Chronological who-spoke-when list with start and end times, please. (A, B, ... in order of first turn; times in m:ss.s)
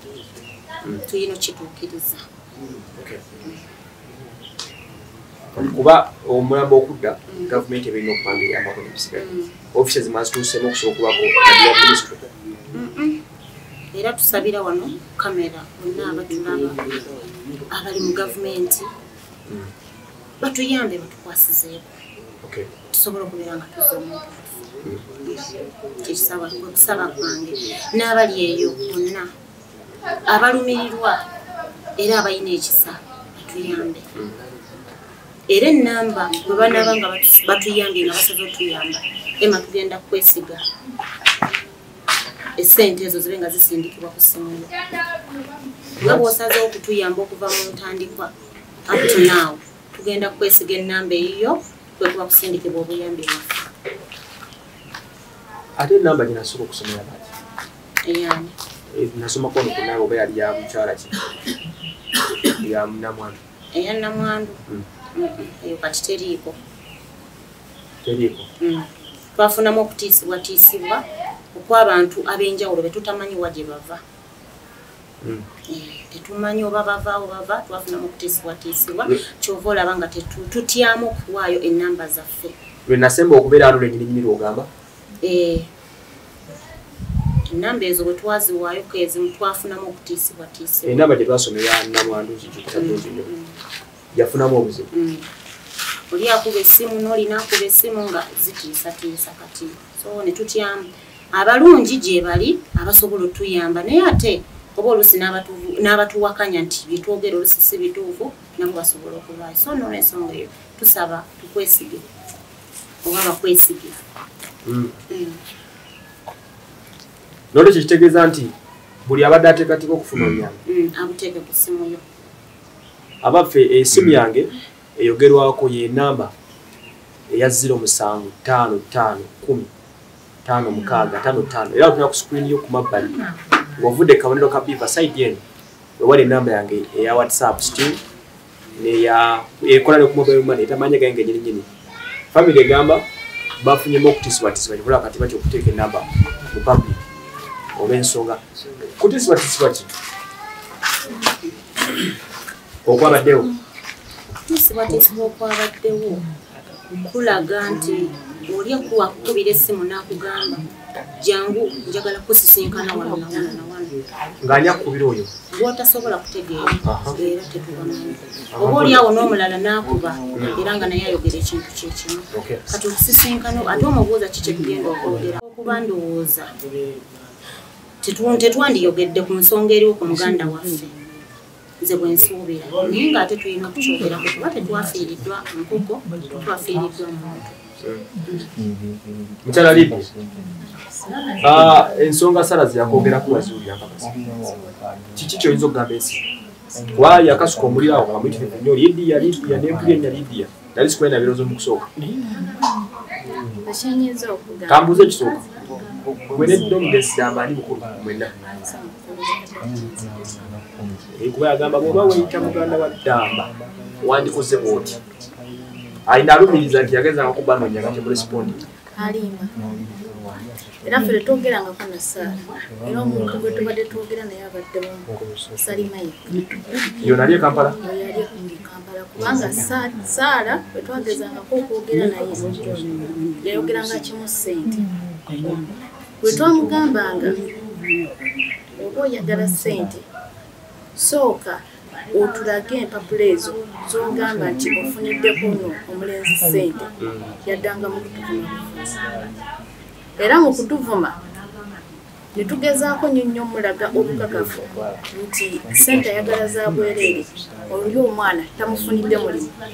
0:01.0-0:02.2 A
0:02.8-0:03.2 B
0:05.5-0:12.2 B
0:07.3-0:07.6 A
0:09.2-0:09.5 A
0:12.7-0:13.2 A
0:13.9-0:16.8 A
0:17.7-0:18.9 A
0:20.4-0:22.0 A
0:22.4-0:22.7 B
0:22.9-0:24.6 A
0:25.2-0:25.5 A
0:26.0-0:29.3 A
0:30.3-0:31.2 A
0:32.0-0:34.0 A
0:35.5-0:40.6 A
0:42.6-0:44.8 A
0:46.0-0:46.3 B
0:46.0-0:48.3 A
0:48.8-0:53.7 A
0:55.8-0:57.3 B
0:58.0-0:58.5 A
0:58.9-1:01.1 B
1:02.5-1:03.4 B
1:03.7-1:04.6 A
1:05.1-1:06.6 A
1:08.0-1:08.5 B
1:08.6-1:14.0 A
1:15.6-1:22.6 A
1:22.8-1:24.7 B
1:25.2-1:25.7 A
1:27.5-1:31.1 A
1:30.8-1:33.3 B
1:32.7-1:33.6 A
1:34.1-1:34.9 B
1:34.9-1:35.3 A
1:36.1-1:52.0 A
1:53.0-1:54.0 A
1:54.6-1:55.0 B
1:55.1-1:55.4 A
1:57.5-1:58.5 B
1:59.0-2:00.6 B
2:00.6-2:02.0 A
2:03.2-2:06.3 B
2:07.3-2:09.7 B
2:10.4-2:13.2 B
2:13.8-2:15.4 B
2:16.0-2:18.0 B
2:18.8-2:21.7 B
2:22.3-2:23.0 B
2:23.6-2:27.0 B
2:27.7-2:28.4 B
2:29.0-2:29.9 B
2:32.8-2:33.5 B
2:34.3-2:36.2 A
2:37.0-2:44.0 A
2:44.4-2:45.3 B
2:45.5-2:56.5 A
2:46.8-2:47.2 B
2:48.5-2:49.0 B
2:50.3-2:50.6 B
2:52.3-2:52.7 B
2:58.0-3:00.9 A
3:01.8-3:07.6 A
3:08.2-3:08.5 A
3:09.4-3:10.1 B
3:11.4-3:14.2 B
3:15.2-3:16.2 B
3:16.9-3:21.9 B
3:23.6-3:25.3 C
3:24.7-3:25.4 B
3:26.3-3:28.4 B
3:28.5-3:30.5 C
3:31.1-3:33.5 B
3:34.0-3:35.0 B
3:36.0-3:38.6 B
3:39.0-3:39.5 C
3:40.8-3:47.2 C
3:47.0-3:47.8 B
3:47.7-3:52.7 C
3:52.7-3:53.4 A
3:53.4-3:54.9 C
3:56.2-3:57.5 C
3:58.8-4:00.0 C
4:00.9-4:06.9 C
4:07.0-4:07.3 B
4:07.4-4:09.1 C
4:10.2-4:11.2 C
4:12.3-4:19.5 C